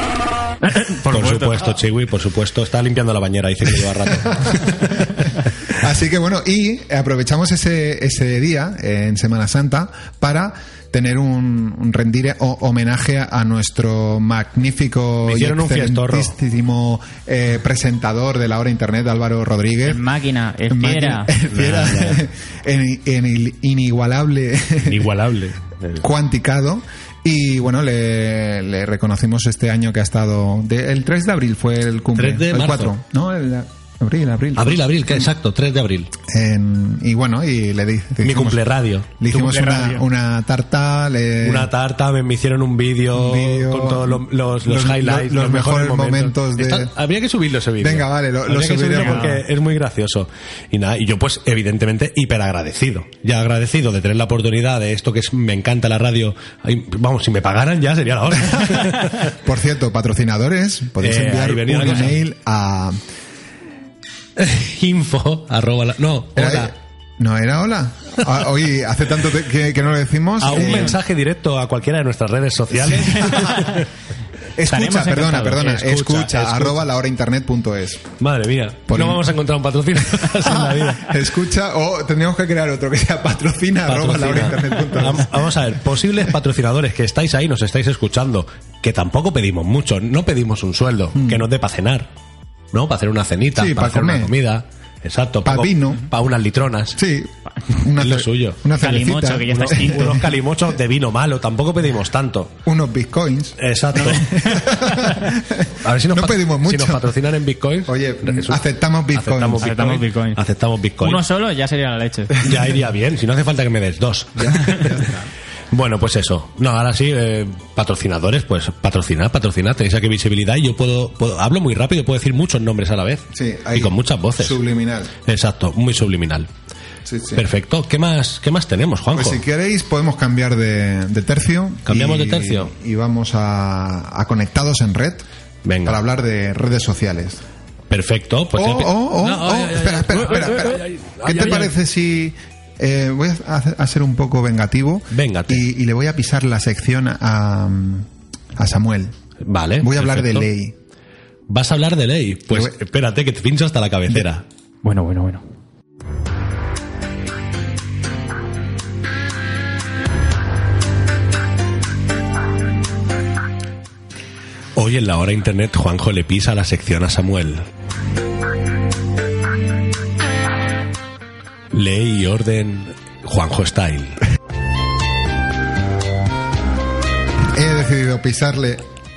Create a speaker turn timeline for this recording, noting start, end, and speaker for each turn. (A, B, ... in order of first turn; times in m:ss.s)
0:00.6-0:01.7 A
0:01.1-0:05.4 B
0:04.3-0:20.0 C
0:15.2-0:16.3 B
0:19.8-0:21.3 A
0:20.7-0:25.1 C
0:21.5-0:22.2 B
0:24.8-0:26.0 B
0:26.0-0:35.2 C
0:32.2-0:32.9 B
0:34.6-0:36.1 B
0:36.3-0:38.6 C
0:38.2-0:39.2 B
0:39.2-0:41.7 C
0:39.3-0:40.0 A
0:41.4-0:59.3 B
0:43.1-0:46.9 C
0:47.8-0:49.3 C
0:49.0-0:49.4 A
0:58.5-1:03.0 C
1:01.0-1:02.2 B
1:04.4-1:06.7 B
1:06.3-1:11.0 C
1:10.4-1:13.9 B
1:12.7-1:13.7 C
1:13.2-1:13.7 A
1:14.6-1:18.1 C
1:14.7-1:15.6 A
1:15.6-1:16.8 B
1:18.2-1:21.2 B
1:18.9-1:19.2 C
1:20.2-1:25.6 C
1:23.9-1:32.1 B
1:31.1-1:31.5 C
1:32.7-1:37.0 B
1:33.5-1:34.3 C
1:35.4-1:36.0 C
1:36.9-1:40.3 C
1:38.0-1:38.6 B
1:38.8-1:40.2 A
1:39.5-1:42.5 B
1:42.6-1:47.1 C
1:43.6-1:44.7 B
1:45.8-1:51.2 B
1:47.8-1:49.7 C
1:49.6-1:50.4 A
1:51.0-1:52.4 A
1:52.4-1:55.0 B
1:54.4-1:55.3 C
1:55.7-2:04.6 B
2:03.3-2:05.1 C
2:05.2-2:06.5 B
2:07.0-2:07.4 C
2:07.3-2:09.4 B
2:09.1-2:15.2 C
2:11.8-2:12.7 B
2:15.6-2:16.0 B
2:15.8-2:17.4 C
2:17.9-2:21.7 B
2:18.5-2:29.1 C
2:25.1-2:25.6 B
2:29.4-2:30.5 B
2:29.8-2:30.7 C
2:31.5-2:34.4 B
2:34.8-2:35.4 A
2:44.8-2:47.6 B
2:51.7-2:54.2 B
2:57.5-2:58.8 C